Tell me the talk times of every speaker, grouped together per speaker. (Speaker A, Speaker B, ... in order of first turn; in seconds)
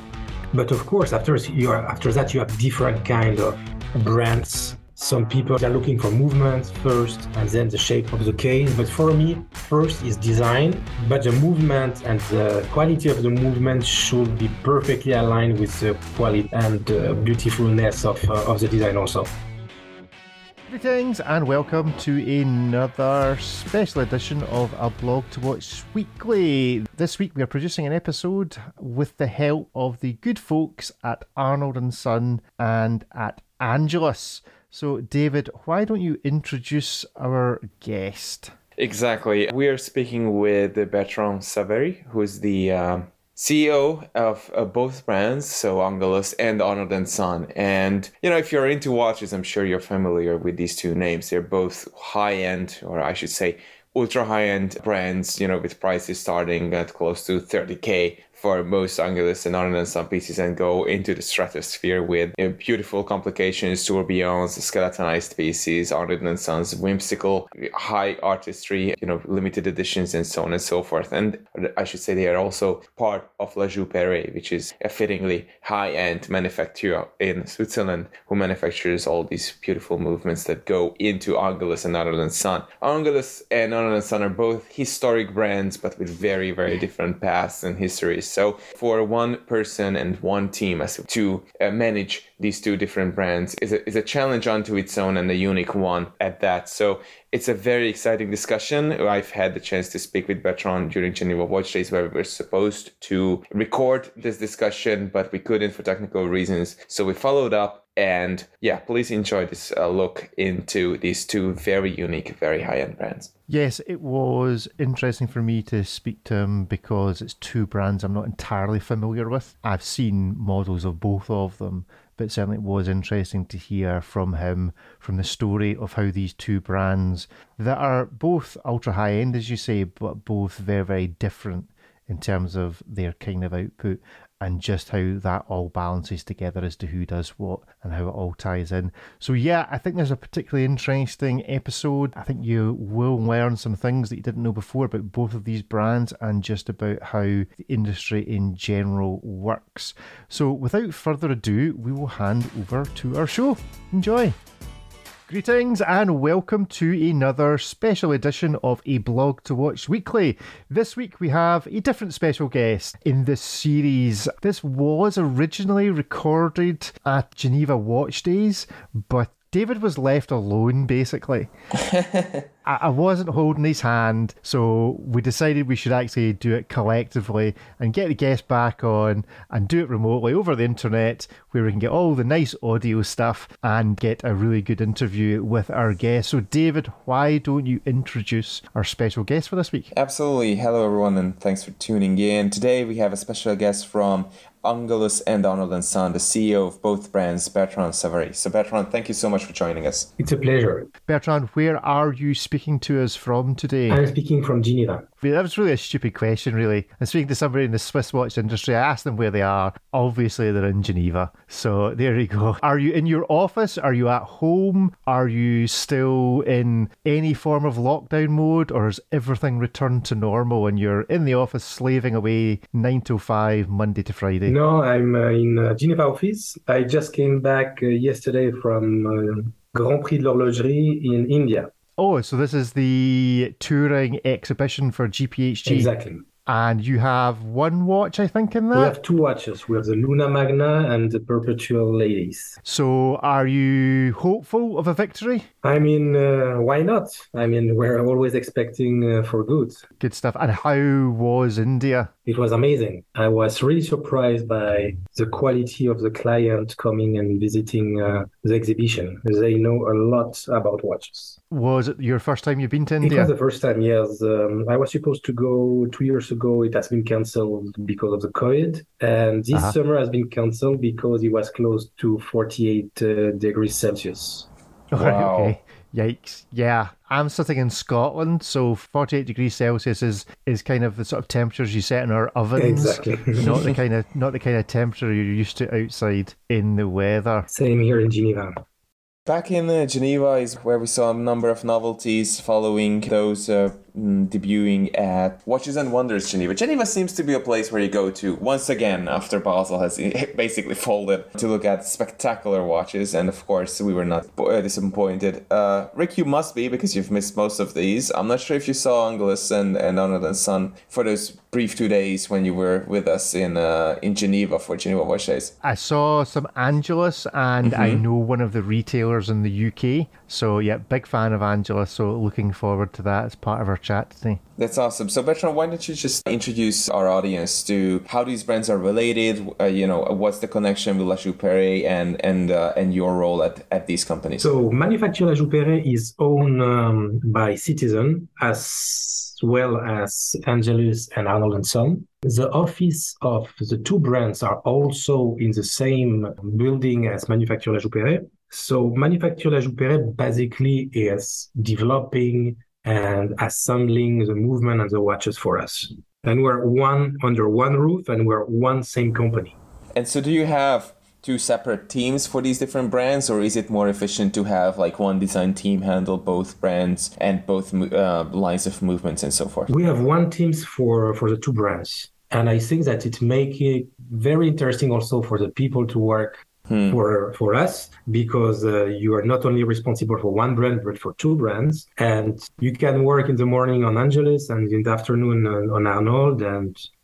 Speaker A: 0.5-19.3, 200.2-200.9, 203.9-205.1, 224.4-231.7, 235.7-236.2, 238.7-242.6, 245.6-249.8, 252.2-261.4, 263.0-274.5, 282.6-283.5, 287.5-288.6, 334.4-359.6, 369.7-376.4, 376.9-386.8
Speaker B: 20.7-38.5, 113.5-154.3, 155.3-171.5, 172.6-189.9, 201.1-204.0, 205.2-224.6, 232.0-235.9, 236.4-239.0, 242.6-245.5, 250.0-252.1, 261.5-263.3, 274.9-287.5, 315.6-324.4
Speaker C: 38.8-113.3, 171.9-172.4, 189.9-200.1, 274.9-275.6, 289.2-315.5, 317.6-318.0, 324.6-334.5, 359.9-369.7, 376.7-377.0